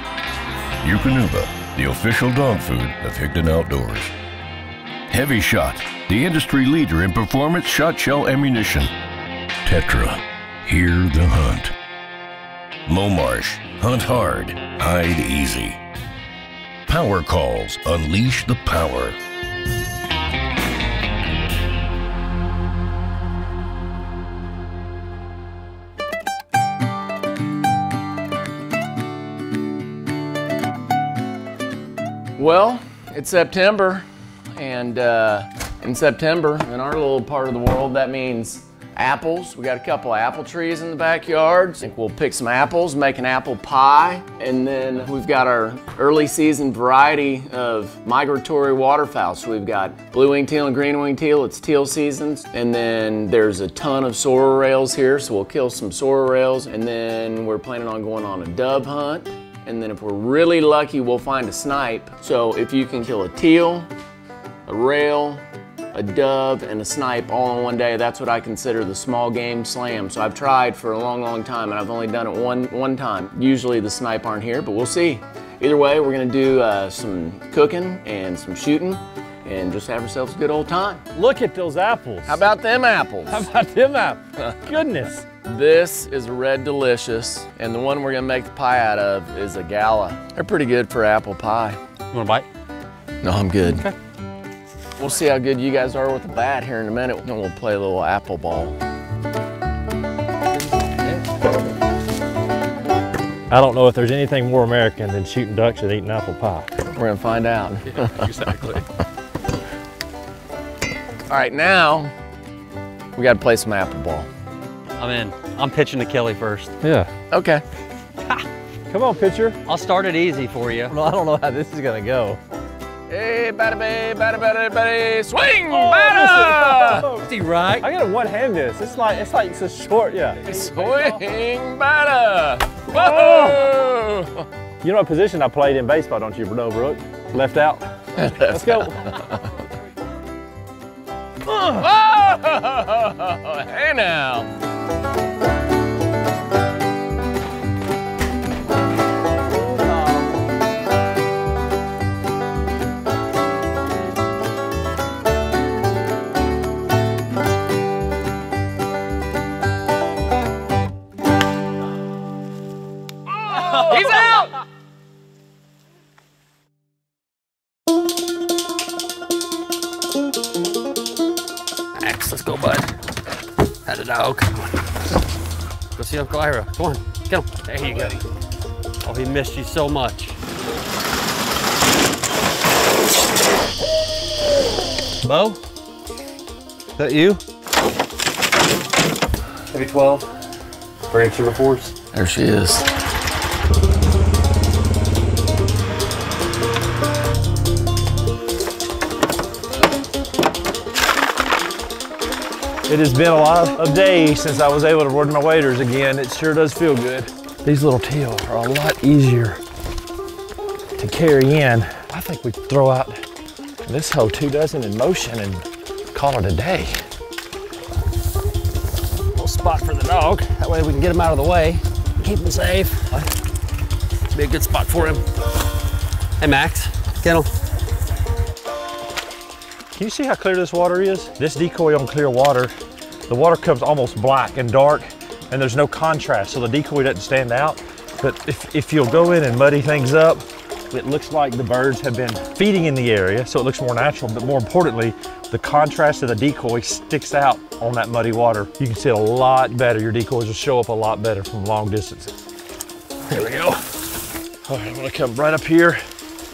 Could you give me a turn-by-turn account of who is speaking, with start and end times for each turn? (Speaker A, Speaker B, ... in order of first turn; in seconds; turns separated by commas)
Speaker A: 0.8-4.1, Speaker A: 5.1-8.9, Speaker A: 9.6-11.7, Speaker A: 12.9-15.8, Speaker A: 16.9-19.2, Speaker B: 32.4-63.9, Speaker B: 64.7-65.4, Speaker B: 65.9-81.0, Speaker C: 81.1-82.4, Speaker B: 82.3-83.5, Speaker C: 83.3-85.2, Speaker B: 85.4-91.8, Speaker D: 92.1-92.5, Speaker B: 93.2-93.8, Speaker D: 93.6-93.9, Speaker B: 95.0-98.8, Speaker D: 100.6-101.2, Speaker C: 103.5-106.7, Speaker B: 106.9-108.5, Speaker B: 111.3-112.1, Speaker B: 113.1-114.3, Speaker D: 115.0-116.7, Speaker C: 116.8-117.1, Speaker B: 117.3-117.6, Speaker C: 118.9-119.6, Speaker D: 119.7-120.9, Speaker C: 120.9-122.4, Speaker B: 123.1-127.1, Speaker C: 125.7-130.6, Speaker D: 127.0-127.9, Speaker B: 130.4-134.5, Speaker C: 132.9-133.7, Speaker C: 134.8-139.2, Speaker B: 138.2-139.4, Speaker C: 141.5-141.8, Speaker B: 141.8-144.5, Speaker B: 163.6-163.9, Speaker D: 163.7-164.5, Speaker D: 171.9-172.9, Speaker D: 173.8-175.0, Speaker D: 175.9-178.2, Speaker D: 179.0-180.4, Speaker D: 185.2-185.6, Speaker D: 186.9-187.4, Speaker D: 189.7-190.3, Speaker D: 191.1-191.9, Speaker B: 192.1-192.9, Speaker C: 202.9-209.6, Speaker C: 211.0-213.2, Speaker C: 213.8-217.0, Speaker D: 219.3-223.2, Speaker D: 224.3-225.2, Speaker D: 226.4-227.5, Speaker C: 229.9-232.7, Speaker C: 233.3-252.3, Speaker C: 253.3-254.0, Speaker C: 254.6-256.0